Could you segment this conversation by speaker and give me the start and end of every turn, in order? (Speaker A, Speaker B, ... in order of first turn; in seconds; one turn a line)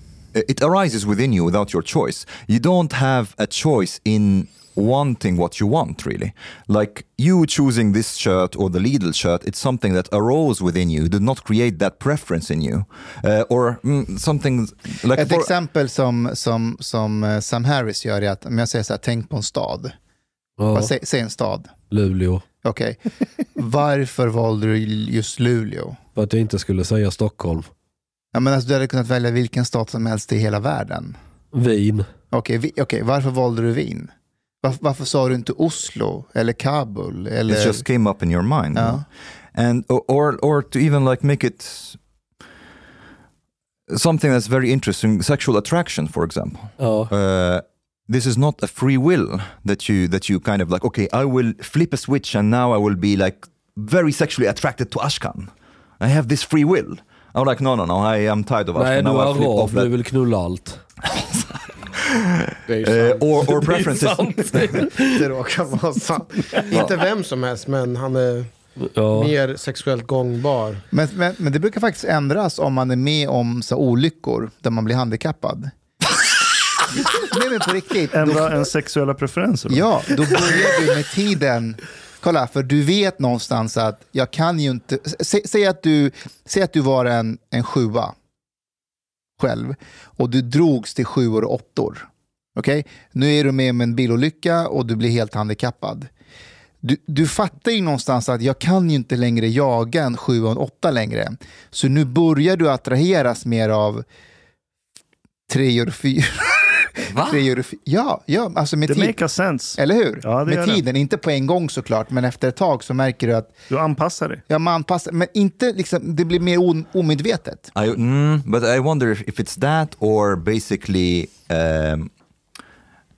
Speaker A: 0.3-15.5
Speaker B: 15.1-19.9
Speaker C: 20.6-20.9
Speaker B: 20.7-21.7
Speaker C: 21.9-22.4
Speaker B: 22.6-26.0
Speaker C: 26.1-27.7
Speaker B: 28.3-31.1
Speaker C: 31.5-32.1
Speaker B: 32.3-34.1
Speaker B: 34.6-37.8
Speaker A: 37.5-42.0
Speaker B: 38.7-39.0
Speaker A: 43.9-59.9
Speaker C: 46.8-47.1
Speaker C: 58.7-60.8
Speaker A: 61.1-64.8
Speaker D: 62.7-63.7
Speaker C: 63.5-65.3
Speaker D: 64.5-68.5
Speaker A: 66.7-66.9
Speaker C: 68.9-69.3
Speaker D: 69.1-70.8
Speaker B: 70.9-75.7
Speaker B: 77.1-78.5
Speaker E: 78.1-80.3
Speaker B: 79.7-88.1
Speaker B: 89.4-96.1
Speaker B: 96.8-104.0
Speaker B: 105.5-109.2
Speaker A: 107.1-107.4
Speaker E: 108.8-110.8
Speaker B: 109.8-113.5
Speaker E: 113.7-114.4
Speaker B: 114.5-117.7
Speaker A: 117.7-122.1